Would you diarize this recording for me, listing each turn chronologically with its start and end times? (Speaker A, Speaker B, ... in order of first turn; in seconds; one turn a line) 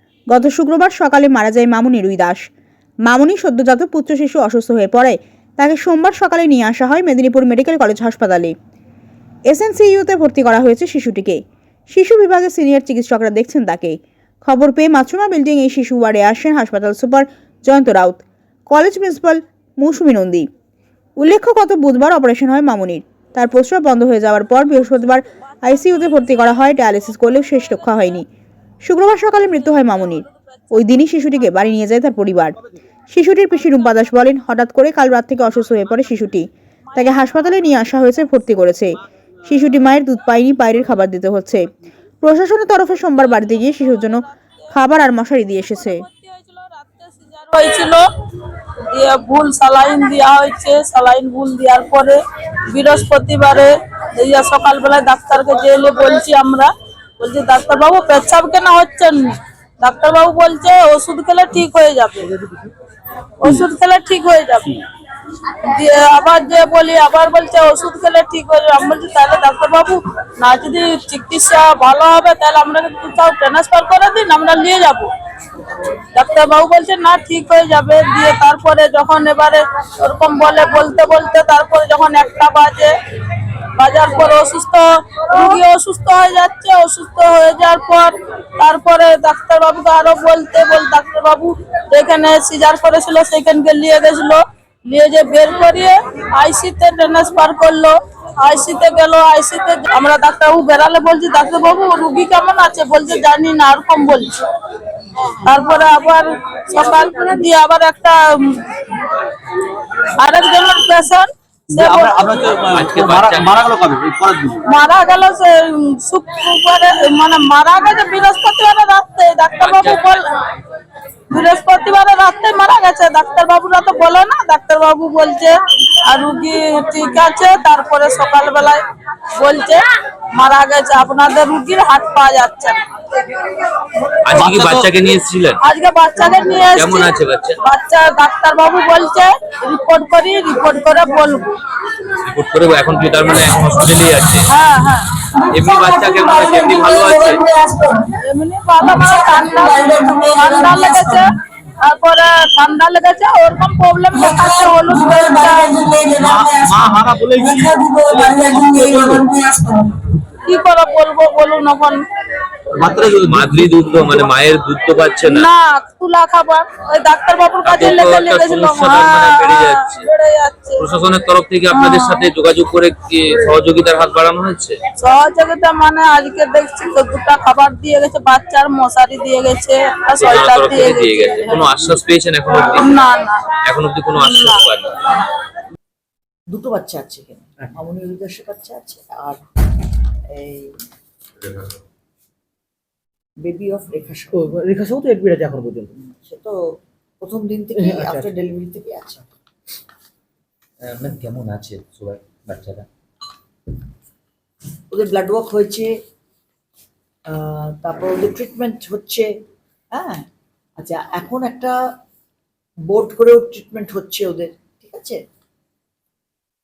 Speaker A: 0.3-2.4
Speaker A: 3.1-8.5
Speaker A: 9.5-11.4
Speaker A: 11.9-20.5
Speaker A: 21.2-28.2
Speaker A: 28.8-32.5
Speaker A: 33.1-41.7
Speaker A: 42.2-46.0
Speaker B: 43.6-44.1
Speaker B: 45.6-62.3
Speaker B: 63.4-64.8
Speaker B: 65.5-75.1
Speaker B: 76.1-82.9
Speaker B: 83.7-104.3
Speaker B: 105.4-108.6
Speaker B: 110.1-112.2
Speaker C: 111.7-114.6
Speaker D: 112.7-113.5
Speaker B: 114.7-120.2
Speaker D: 119.6-120.2
Speaker B: 121.3-125.5
Speaker B: 126.0-128.8
Speaker B: 129.4-132.8
Speaker D: 134.2-135.6
Speaker C: 134.3-134.9
Speaker B: 135.6-141.4
Speaker D: 136.7-137.6
Speaker D: 142.2-144.5
Speaker B: 144.5-145.1
Speaker D: 145.5-147.4
Speaker B: 145.9-146.8
Speaker B: 148.2-151.3
Speaker B: 151.8-155.9
Speaker E: 155.9-156.2
Speaker C: 156.1-159.3
Speaker E: 159.4-159.8
Speaker B: 160.4-162.0
Speaker C: 162.7-164.3
Speaker D: 163.1-165.5
Speaker B: 165.2-170.8
Speaker D: 167.6-170.1
Speaker D: 170.8-174.8
Speaker B: 171.7-172.3
Speaker B: 175.0-181.7
Speaker D: 180.2-182.9
Speaker B: 182.5-183.6
Speaker D: 183.6-185.0
Speaker B: 184.1-184.6
Speaker F: 186.5-189.4
Speaker F: 190.3-190.7
Speaker F: 193.4-194.4
Speaker E: 194.3-196.1
Speaker F: 196.1-196.6
Speaker F: 197.2-199.2
Speaker E: 197.8-198.3
Speaker G: 200.8-202.8
Speaker F: 204.9-205.9
Speaker F: 207.3-209.3
Speaker F: 209.9-210.2
Speaker F: 210.8-211.8
Speaker F: 212.8-215.2